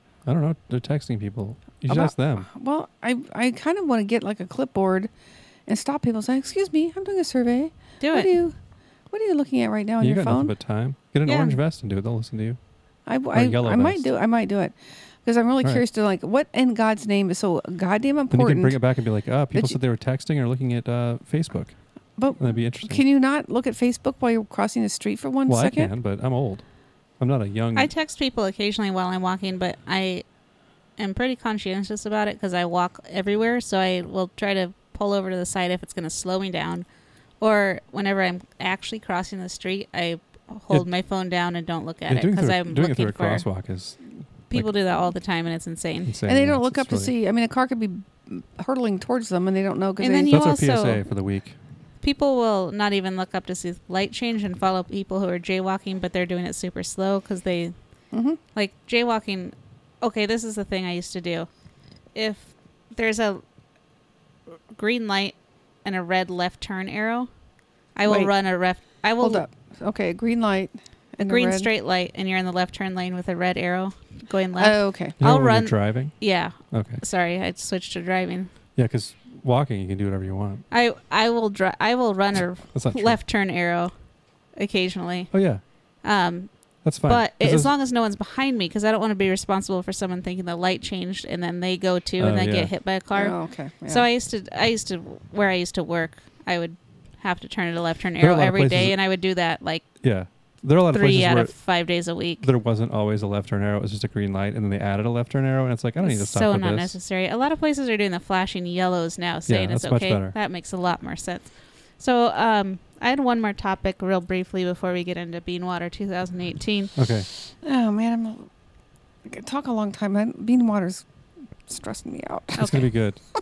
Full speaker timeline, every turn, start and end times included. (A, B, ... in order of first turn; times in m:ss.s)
0:00.3-0:02.5 A
0:01.9-0:05.1 B
0:05.7-0:08.6 B
0:08.0-0:08.4 C
0:09.1-0:10.5 B
0:10.0-0:12.6 A
0:11.3-0:11.6 C
0:13.1-0:18.8 B
0:13.3-0:14.1 A
0:18.3-0:21.8 A
0:19.5-0:19.8 B
0:22.2-0:25.9 B
0:22.4-0:23.0 A
0:25.5-0:26.6 A
0:27.2-0:27.9 A
0:27.8-0:30.2 C
0:31.0-0:36.8 C
0:37.4-0:43.4 C
0:42.1-0:44.7 A
0:44.5-0:46.1 C
0:46.1-0:47.1 A
0:46.3-0:50.4 B
0:50.0-0:51.0 C
0:50.3-0:51.6 A
0:52.0-0:57.7 C
0:58.1-0:58.4 B
0:58.6-1:01.5 C
1:02.2-1:03.4 C
1:04.7-1:07.3 C
1:08.0-1:09.4 C
1:08.1-1:08.3 B
1:09.2-1:11.7 B
1:11.2-1:18.5 C
1:14.6-1:15.2 B
1:15.2-1:16.1 A
1:16.7-1:17.0 A
1:18.8-1:20.6 A
1:20.7-1:23.9 C
1:22.7-1:23.2 A
1:24.6-1:25.3 C
1:25.3-1:25.6 A
1:26.0-1:26.5 C
1:26.8-1:27.7 A
1:27.1-1:33.4 C
1:32.2-1:32.7 A
1:33.1-1:34.1 B
1:33.9-1:39.9 C
1:38.2-1:39.0 A
1:40.0-1:41.5 A
1:40.9-1:42.5 C
1:42.4-1:47.0 A
1:46.0-1:56.9 C
1:49.5-1:50.4 A
1:57.0-1:57.3 A
1:57.6-1:58.5 B
1:59.2-2:01.0 B
2:01.7-2:02.8 B
2:02.6-2:03.2 A
2:02.6-2:02.9 C